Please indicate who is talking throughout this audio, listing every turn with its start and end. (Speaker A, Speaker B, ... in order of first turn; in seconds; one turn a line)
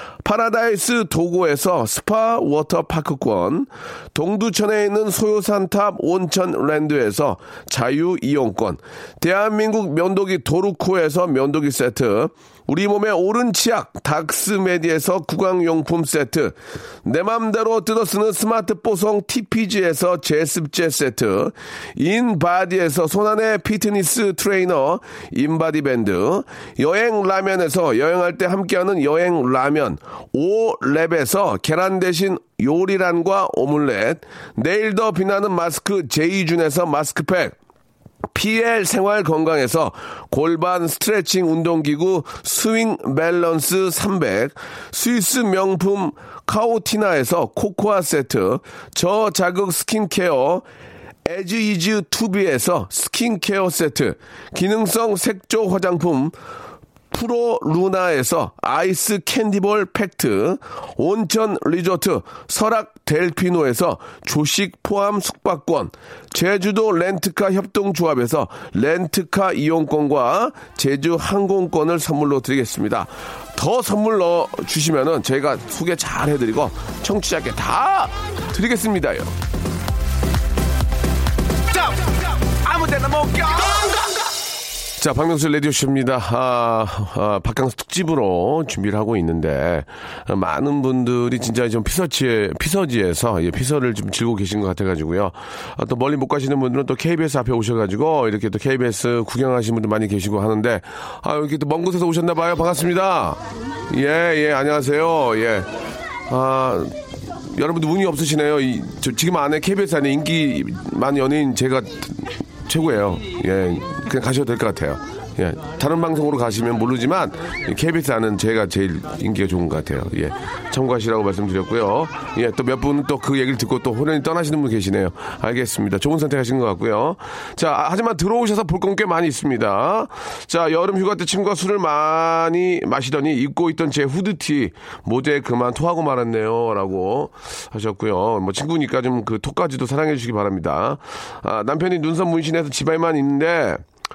Speaker A: 0.2-37.5
Speaker A: 38.3-50.6
Speaker A: 51.3-56.3
Speaker A: 57.1-79.3
Speaker A: 81.7-84.1
Speaker A: 85.0-105.7
Speaker A: 106.3-107.0
Speaker A: 107.5-143.8